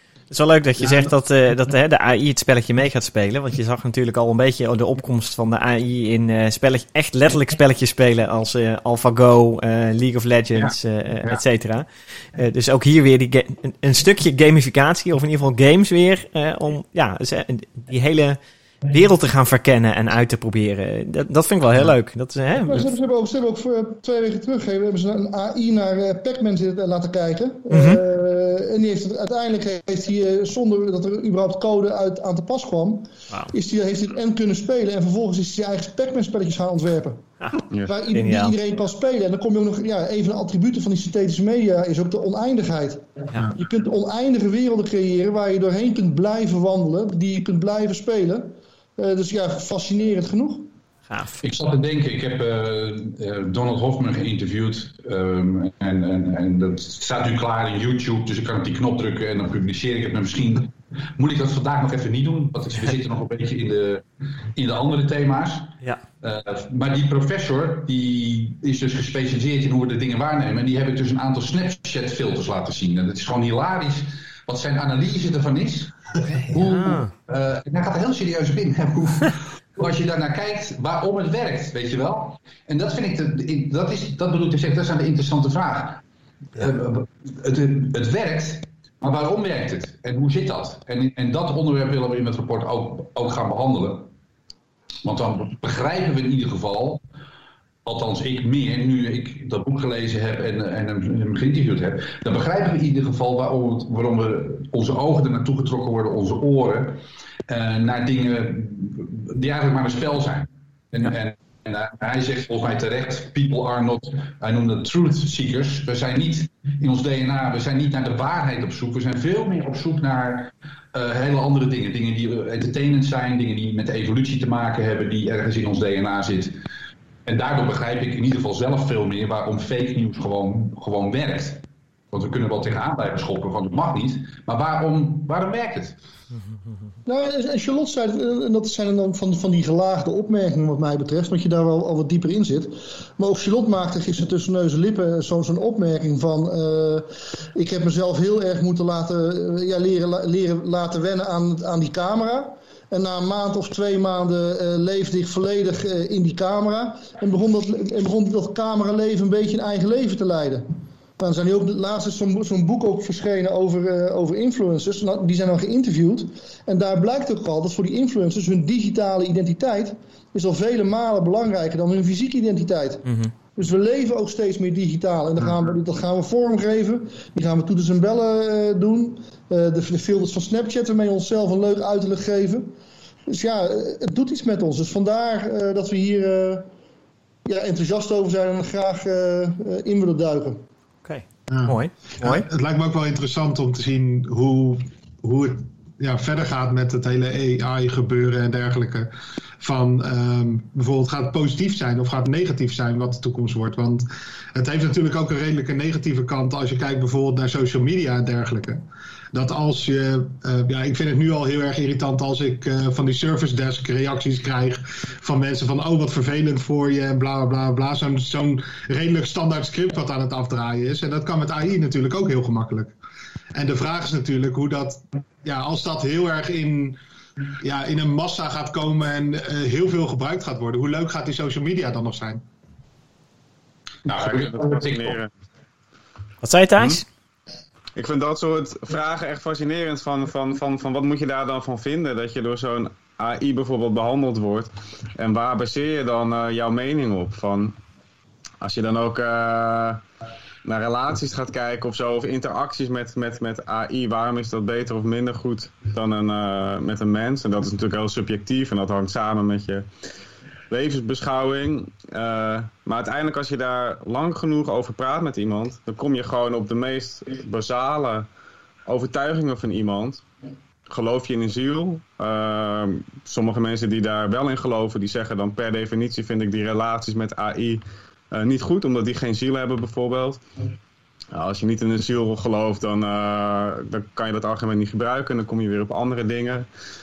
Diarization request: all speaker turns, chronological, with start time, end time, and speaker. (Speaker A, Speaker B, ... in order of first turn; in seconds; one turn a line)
Speaker A: 0.3-22.9
Speaker B: 0.8-1.1
Speaker C: 10.5-11.4
Speaker D: 22.6-37.2
Speaker A: 27.7-28.0
Speaker E: 37.7-38.0
Speaker D: 37.9-50.7
Speaker A: 38.1-38.5
Speaker A: 51.1-51.4
Speaker C: 51.4-86.0
Speaker A: 76.3-77.1
Speaker C: 86.5-94.1
Speaker C: 95.0-97.0
Speaker C: 97.8-126.6
Speaker C: 127.2-136.0
Speaker D: 137.1-160.7
Speaker D: 161.2-182.7
Speaker A: 173.0-173.3
Speaker D: 183.3-186.7
Speaker D: 187.4-190.6
Speaker A: 191.0-192.5
Speaker B: 191.5-222.9
Speaker B: 223.5-227.0
Speaker B: 227.6-232.4
Speaker C: 234.0-235.2
Speaker E: 234.2-235.3
Speaker A: 236.4-237.0
Speaker E: 237.9-247.8
Speaker E: 248.6-250.0
Speaker E: 250.6-259.9
Speaker E: 260.7-268.3
Speaker E: 268.9-270.2
Speaker E: 270.9-280.4
Speaker E: 281.3-286.7